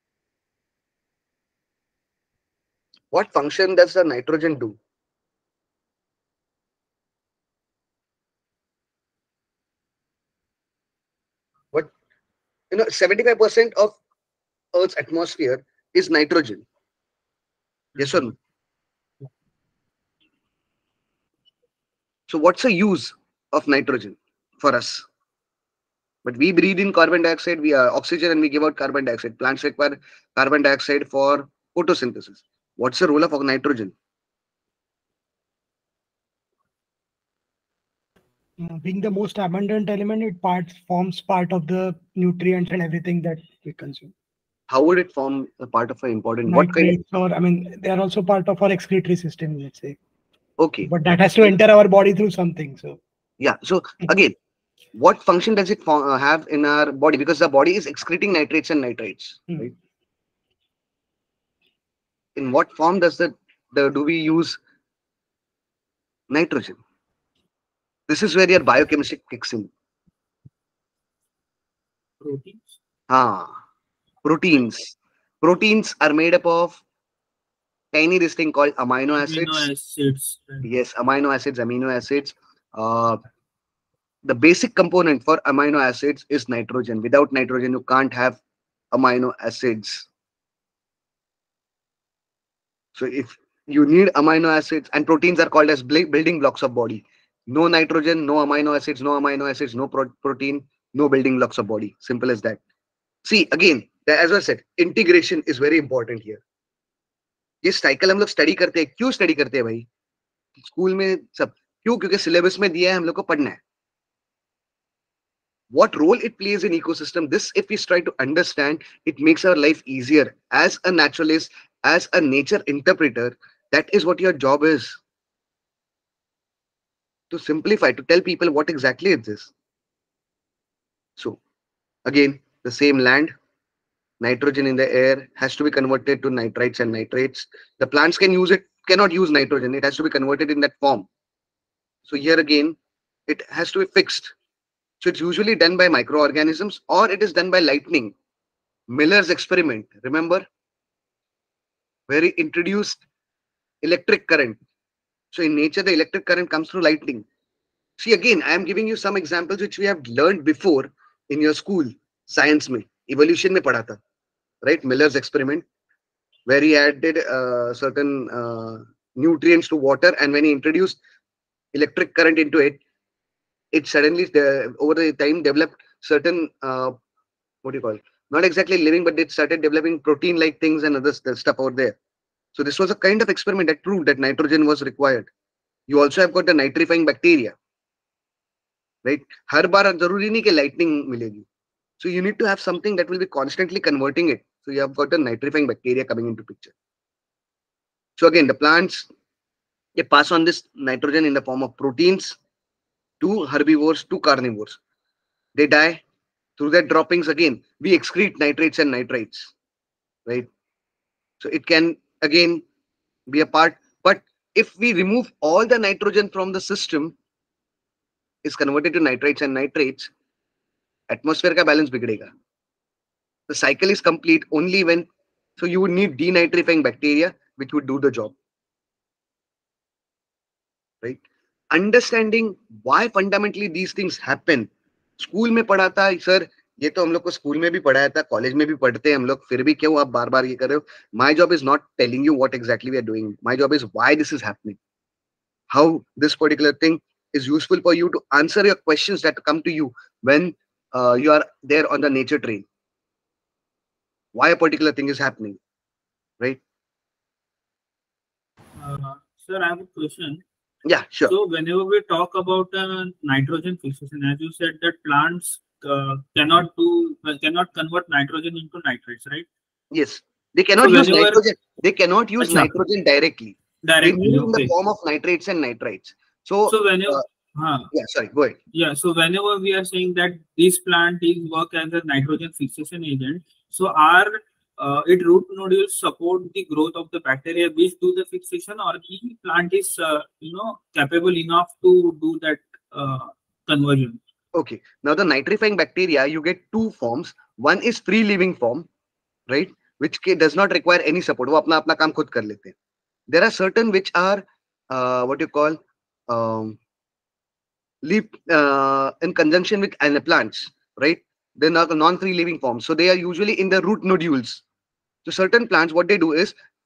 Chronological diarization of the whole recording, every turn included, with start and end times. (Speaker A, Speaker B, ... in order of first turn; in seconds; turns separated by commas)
Speaker A: 3.1-4.8, Speaker A: 12.7-14.0, Speaker A: 14.7-16.6, Speaker B: 18.0-18.2, Speaker A: 18.0-18.4, Speaker A: 22.3-25.1, Speaker A: 26.2-33.9, Speaker C: 38.6-44.1, Speaker A: 44.7-46.9, Speaker C: 46.5-50.0, Speaker A: 50.6-50.9, Speaker C: 50.9-53.0, Speaker A: 53.4-54.4, Speaker A: 55.0-59.7, Speaker A: 62.4-64.6, Speaker A: 66.3-66.8, Speaker A: 68.1-69.7, Speaker B: 72.2-72.8, Speaker A: 73.1-73.6, Speaker A: 74.2-76.8, Speaker A: 77.9-79.7, Speaker B: 79.2-80.7, Speaker A: 80.6-83.2, Speaker A: 84.2-88.4, Speaker A: 88.9-90.1, Speaker A: 93.0-102.6, Speaker A: 103.2-106.4, Speaker A: 107.6-109.9, Speaker A: 110.6-113.6, Speaker A: 115.7-125.0, Speaker A: 127.3-129.5, Speaker A: 132.1-133.3, Speaker A: 134.2-141.1, Speaker A: 142.1-144.3, Speaker A: 145.0-148.1, Speaker A: 148.9-150.5, Speaker A: 152.1-153.0, Speaker A: 153.8-154.6, Speaker A: 155.3-157.3, Speaker A: 158.0-164.0, Speaker A: 164.6-165.7, Speaker A: 166.5-171.0, Speaker A: 171.7-172.8, Speaker A: 173.7-177.0, Speaker A: 177.6-182.0, Speaker A: 182.6-185.3, Speaker A: 185.9-187.6, Speaker A: 189.1-191.5, Speaker A: 192.0-196.7, Speaker A: 198.2-199.1, Speaker A: 200.0-202.4, Speaker A: 203.2-204.8, Speaker A: 205.6-206.0, Speaker A: 206.6-209.5, Speaker A: 211.4-212.6, Speaker A: 213.3-217.2, Speaker A: 218.4-220.1, Speaker A: 221.1-222.3, Speaker A: 223.5-228.3, Speaker A: 231.7-244.8, Speaker A: 245.7-252.7, Speaker A: 254.3-255.6, Speaker B: 258.8-260.4, Speaker A: 260.9-261.3, Speaker B: 261.3-269.5, Speaker A: 269.9-277.2, Speaker B: 270.8-271.4, Speaker B: 272.4-272.7, Speaker B: 273.8-274.7, Speaker B: 276.7-277.9, Speaker A: 277.9-278.6, Speaker B: 278.7-294.2, Speaker A: 294.5-298.9, Speaker A: 299.5-302.8, Speaker A: 303.3-306.8, Speaker A: 308.0-314.6, Speaker A: 315.2-316.6